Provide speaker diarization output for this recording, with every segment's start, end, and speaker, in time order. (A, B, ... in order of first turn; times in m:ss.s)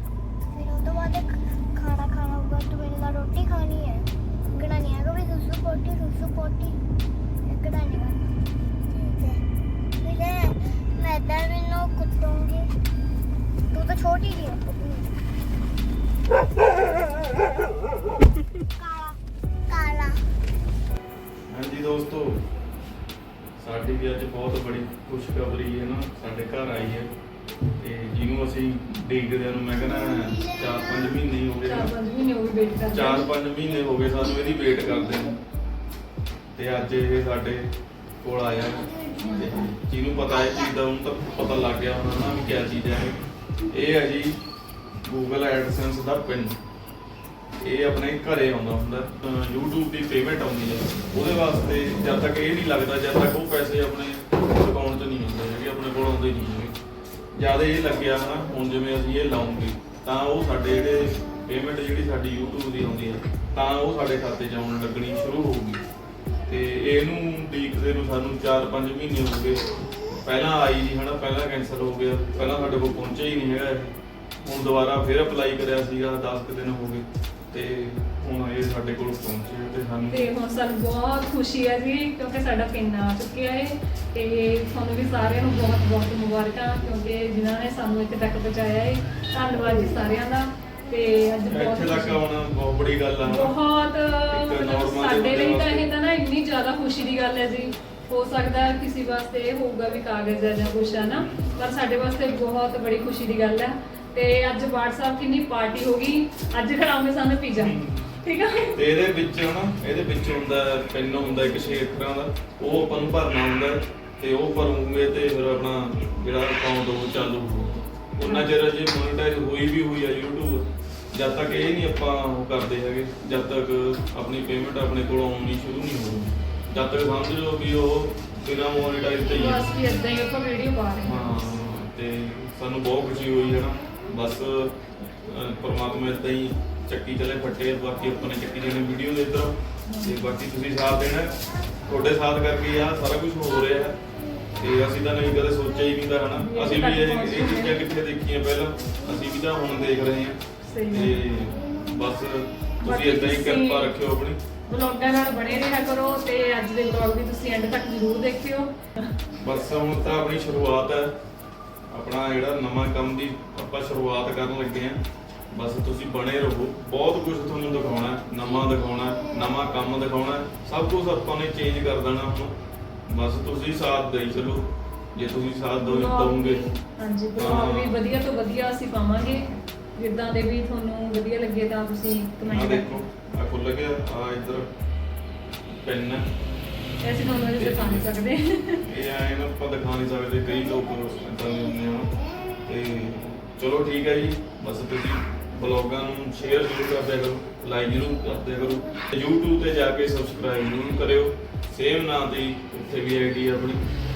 0:00.5-0:06.8 A
0:07.4-0:09.4 A
0:10.0-0:12.8 A
0:13.7-0:15.1 A
0:18.8-0:20.3 A
0:21.5-0:22.5 B
0:23.6-0:27.1 B
0:27.8-0:31.9 B
0:29.9-0:31.2 A
0:31.7-0:33.3 C
0:32.9-0:35.4 B
0:36.6-0:37.7 B
0:38.2-0:44.4 B
0:38.8-0:39.5 A
0:39.2-0:39.5 C
0:45.0-0:46.6 B
0:47.6-0:56.8 B
0:57.4-1:05.8 B
1:06.5-1:20.3 B
1:20.1-1:32.2 C
1:31.5-1:33.6 B
1:33.2-1:48.8 C
1:34.3-1:35.9 B
1:41.1-1:41.5 B
1:47.5-1:48.2 B
1:48.7-2:09.7 B
1:58.2-1:58.5 C
2:09.2-2:11.5 C
2:11.0-2:24.0 B
2:19.9-2:20.2 C
2:24.6-2:34.4 B
2:26.3-2:27.8 C
2:30.6-2:31.2 C
2:32.8-2:33.9 C
2:34.7-2:38.7 C
2:39.4-2:41.1 B
2:41.9-2:52.6 B
2:53.1-2:56.6 B
2:55.8-3:02.9 C
2:57.4-2:58.0 B
3:02.4-3:04.7 B
3:05.7-3:06.3 B
3:07.0-3:08.8 C
3:07.5-3:08.1 B
3:08.8-3:23.8 B